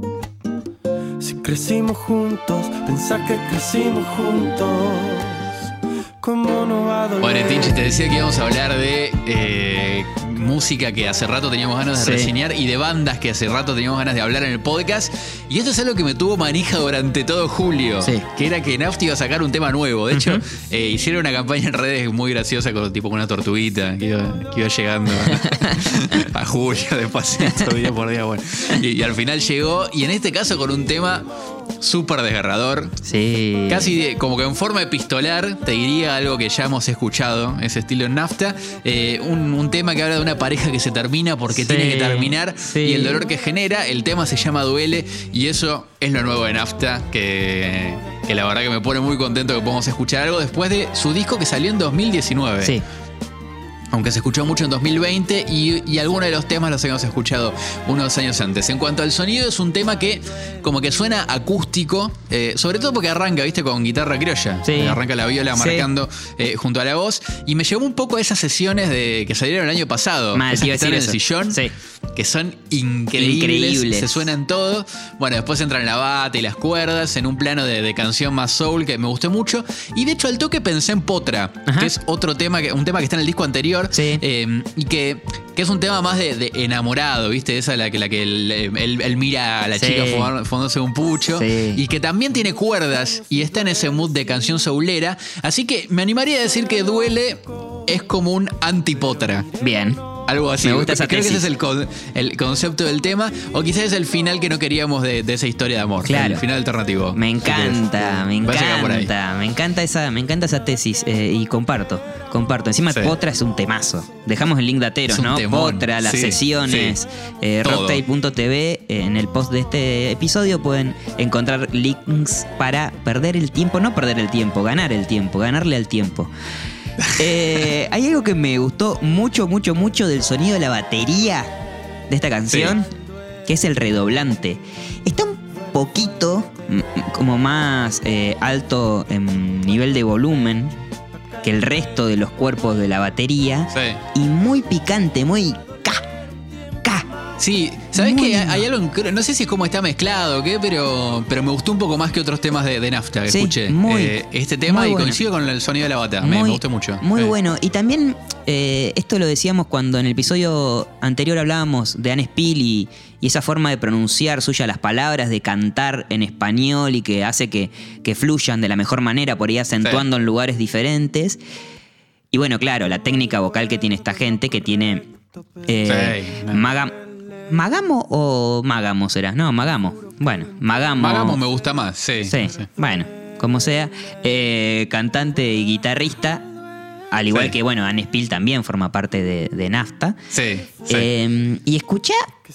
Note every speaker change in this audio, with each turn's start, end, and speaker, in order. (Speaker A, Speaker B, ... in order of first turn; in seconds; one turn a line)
Speaker A: 1.2-5.5
Speaker A: 6.2-8.0
Speaker B: 7.2-31.2
Speaker C: 12.0-12.3
Speaker C: 20.1-20.4
Speaker C: 25.2-25.8
Speaker B: 31.8-32.9
Speaker C: 33.0-34.0
Speaker B: 33.7-52.8
Speaker C: 41.5-43.3
Speaker B: 53.9-71.6
Speaker C: 64.6-65.0
Speaker C: 65.5-65.9
Speaker C: 70.3-71.7
Speaker B: 72.1-99.5
Speaker C: 73.2-74.2
Speaker C: 81.7-81.9
Speaker C: 83.9-84.2
Speaker C: 89.7-90.3
Speaker C: 91.3-91.8
Speaker C: 99.6-100.1
Speaker B: 100.3-109.1
Speaker C: 100.6-101.5
Speaker C: 106.0-106.4
Speaker C: 107.1-126.3
Speaker B: 115.1-117.0
Speaker B: 117.6-118.0
Speaker B: 127.0-127.3
Speaker C: 127.1-132.9
Speaker B: 132.5-132.7
Speaker C: 133.4-140.8
Speaker C: 141.4-146.0
Speaker B: 143.7-144.0
Speaker B: 147.4-157.3
Speaker C: 147.9-148.7
Speaker C: 153.3-155.2
Speaker C: 156.2-171.4
Speaker C: 172.3-175.1
Speaker C: 175.7-181.4
Speaker B: 175.8-176.7
Speaker B: 181.0-182.7
Speaker C: 182.2-186.4
Speaker C: 187.1-190.2
Speaker B: 187.3-187.5
Speaker B: 190.3-191.1
Speaker C: 190.9-192.3